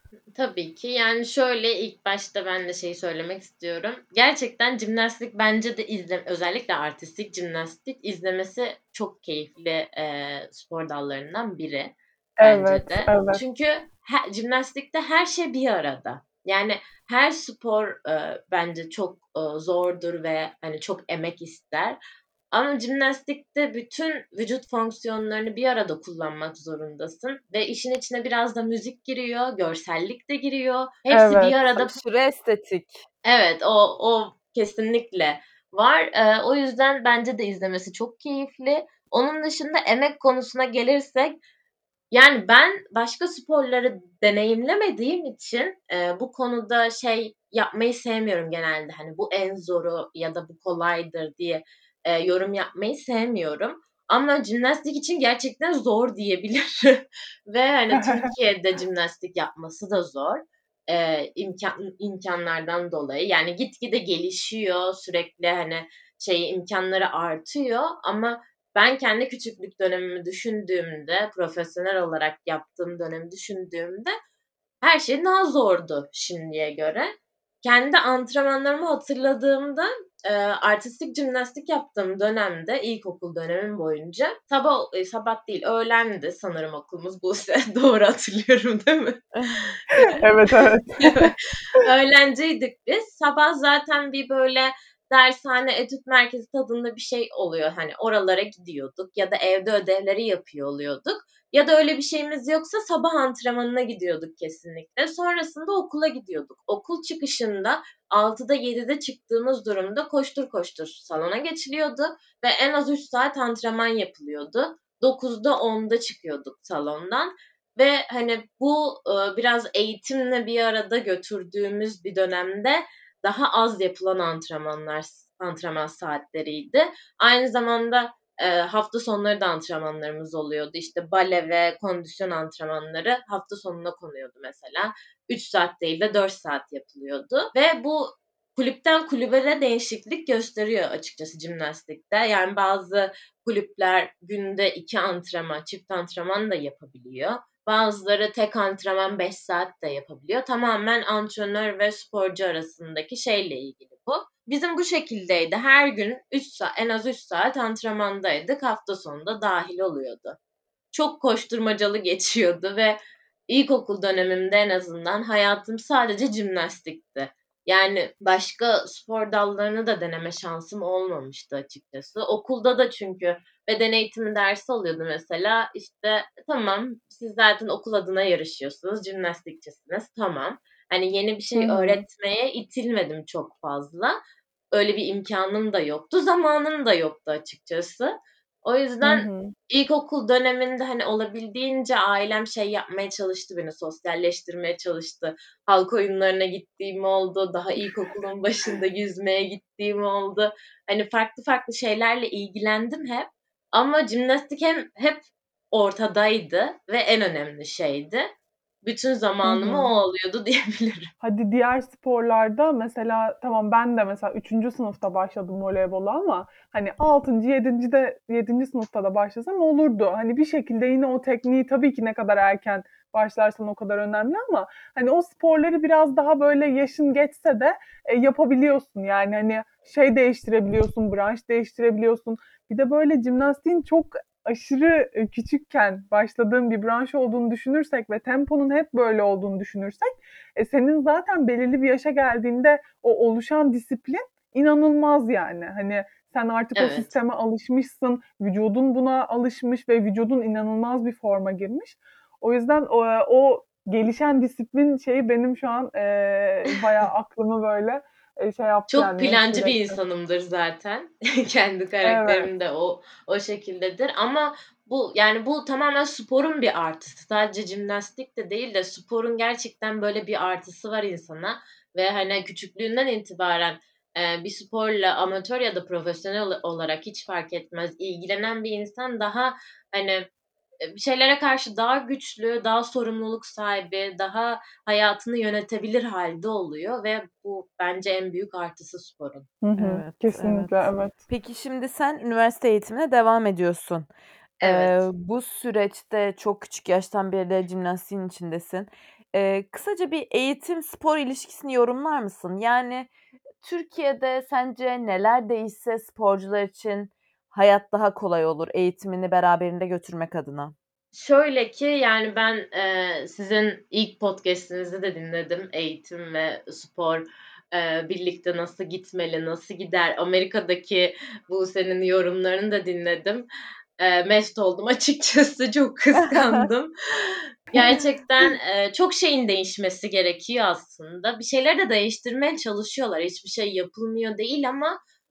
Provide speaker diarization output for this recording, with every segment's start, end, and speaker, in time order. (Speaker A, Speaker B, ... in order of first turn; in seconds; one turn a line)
Speaker A: 0.3-22.0
Speaker B: 12.4-13.4
Speaker A: 22.5-32.0
Speaker B: 31.1-31.6
Speaker C: 31.8-33.0
Speaker A: 33.2-41.4
Speaker A: 42.1-74.2
Speaker B: 57.9-58.3
Speaker A: 74.8-77.1
Speaker A: 77.6-89.2
Speaker C: 89.3-89.8
Speaker B: 90.0-91.3
Speaker A: 91.0-160.4
Speaker A: 160.9-184.2
Speaker B: 181.6-182.0
Speaker A: 184.7-208.3
Speaker B: 189.0-189.5
Speaker A: 208.8-211.1
Speaker B: 209.4-209.9
Speaker B: 211.2-260.0
Speaker A: 246.7-247.1
Speaker A: 258.9-280.3
Speaker B: 262.0-262.5
Speaker A: 280.8-289.5
Speaker B: 289.6-291.1
Speaker C: 289.8-294.1
Speaker A: 294.6-295.0
Speaker C: 294.6-303.1
Speaker C: 303.6-310.7
Speaker A: 311.1-323.4
Speaker A: 324.0-335.0
Speaker C: 326.2-326.7